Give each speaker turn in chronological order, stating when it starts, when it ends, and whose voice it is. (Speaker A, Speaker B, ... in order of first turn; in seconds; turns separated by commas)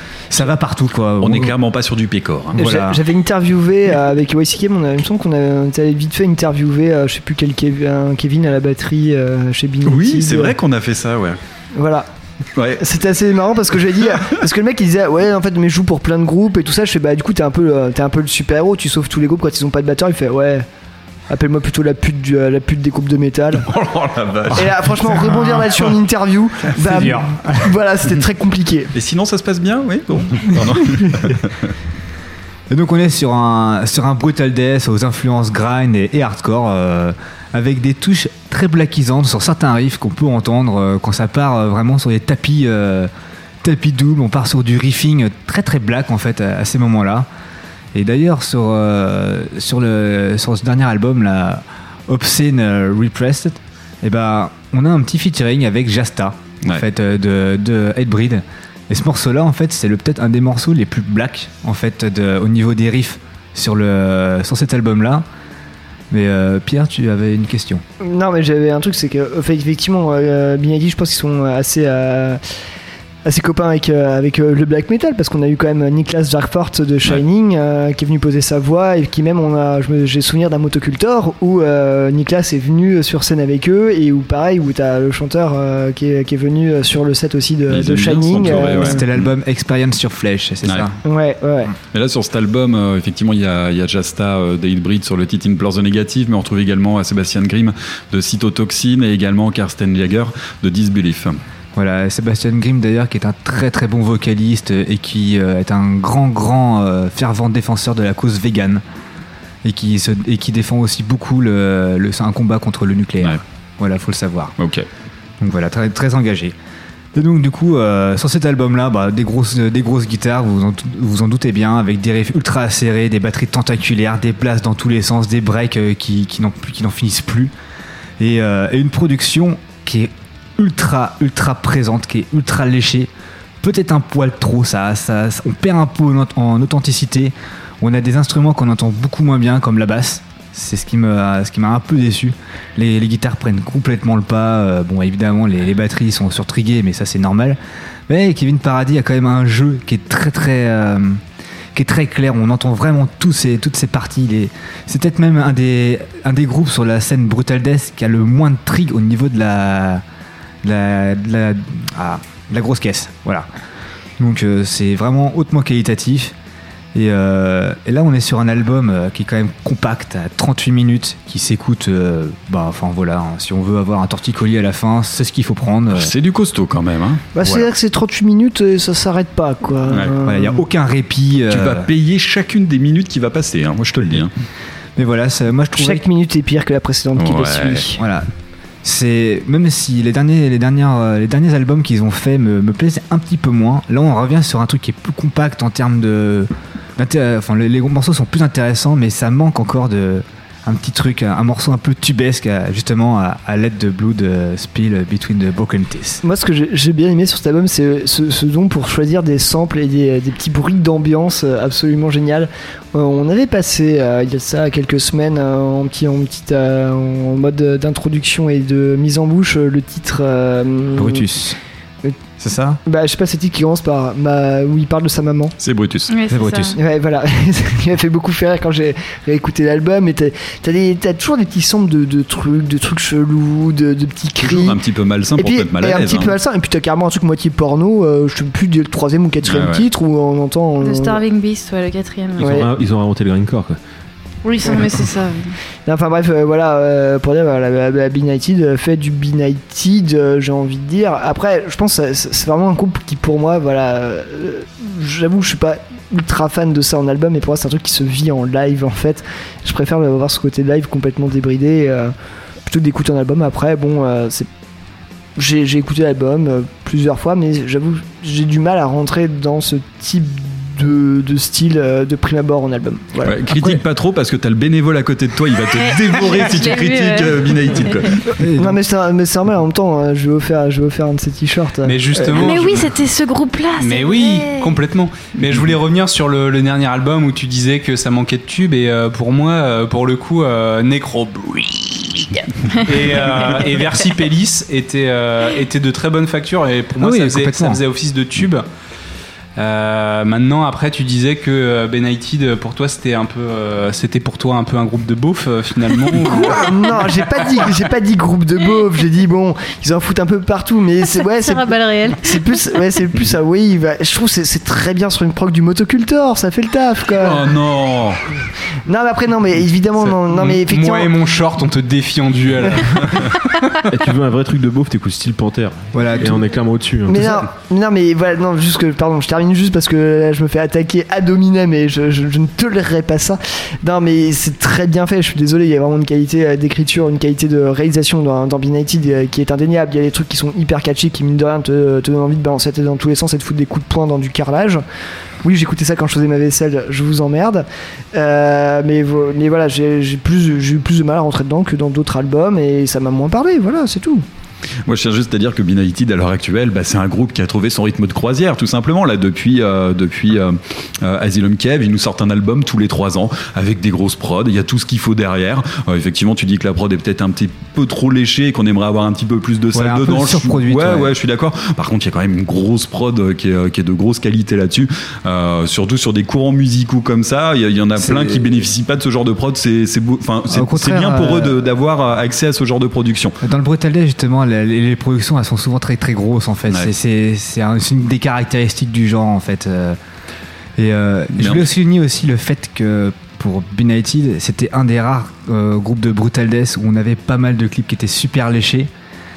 Speaker A: 0.3-1.5, Speaker B: 1.2-2.6, Speaker C: 2.6-10.5, Speaker A: 2.6-3.0, Speaker B: 9.9-11.4, Speaker C: 11.8-12.1, Speaker B: 12.6-12.8, Speaker C: 12.8-20.7, Speaker C: 21.3-23.7, Speaker B: 23.7-25.9, Speaker C: 24.5-28.9, Speaker A: 26.9-27.4, Speaker B: 28.9-31.5, Speaker A: 32.7-43.1, Speaker A: 43.6-47.3, Speaker A: 47.9-65.2, Speaker A: 66.1-67.8, Speaker C: 68.0-72.4, Speaker C: 73.2-89.0, Speaker B: 87.7-89.3, Speaker A: 88.5-90.9, Speaker C: 91.0-91.7, Speaker B: 91.9-101.4, Speaker A: 101.8-108.8, Speaker A: 109.6-114.5, Speaker B: 114.6-114.9, Speaker A: 115.4-116.5, Speaker A: 117.2-127.5, Speaker A: 128.2-133.1, Speaker A: 133.6-147.6, Speaker A: 148.1-151.2, Speaker A: 151.8-160.0, Speaker A: 160.6-163.5, Speaker A: 164.2-166.3, Speaker A: 166.9-176.1, Speaker B: 175.9-177.2, Speaker C: 177.3-180.6, Speaker B: 179.9-180.1, Speaker A: 180.2-181.9, Speaker B: 181.5-184.3, Speaker A: 185.0-186.0, Speaker C: 185.8-188.0, Speaker B: 187.2-187.9, Speaker A: 188.0-188.3, Speaker A: 188.8-206.2, Speaker C: 206.2-221.3, Speaker A: 221.0-221.6, Speaker A: 222.4-222.8, Speaker C: 222.8-225.5, Speaker B: 225.6-226.1, Speaker D: 226.1-226.8, Speaker A: 226.3-226.7, Speaker C: 226.8-234.8, Speaker B: 234.4-236.3, Speaker C: 235.4-241.2, Speaker B: 239.5-239.9, Speaker D: 240.8-242.6, Speaker E: 242.4-243.8, Speaker C: 242.4-242.7, Speaker D: 244.4-245.5, Speaker C: 245.9-262.1, Speaker C: 262.7-264.5, Speaker C: 265.4-273.8, Speaker B: 273.2-278.2, Speaker D: 275.6-278.1, Speaker A: 278.4-278.7, Speaker C: 278.6-282.6, Speaker F: 281.9-282.9, Speaker D: 282.3-284.7, Speaker F: 283.8-292.3, Speaker F: 292.8-298.6, Speaker A: 297.0-297.8, Speaker F: 299.6-306.6, Speaker C: 306.4-317.5, Speaker D: 311.2-312.5, Speaker B: 317.2-318.2, Speaker C: 318.9-321.1, Speaker F: 320.0-323.1, Speaker E: 323.9-327.3, Speaker A: 325.9-326.3, Speaker C: 327.1-344.8, Speaker C: 345.4-354.2, Speaker B: 354.9-383.4, Speaker A: 369.7-371.1, Speaker F: 378.0-378.4, Speaker A: 380.5-381.6, Speaker A: 383.4-390.0, Speaker A: 390.8-398.9, Speaker B: 391.4-391.7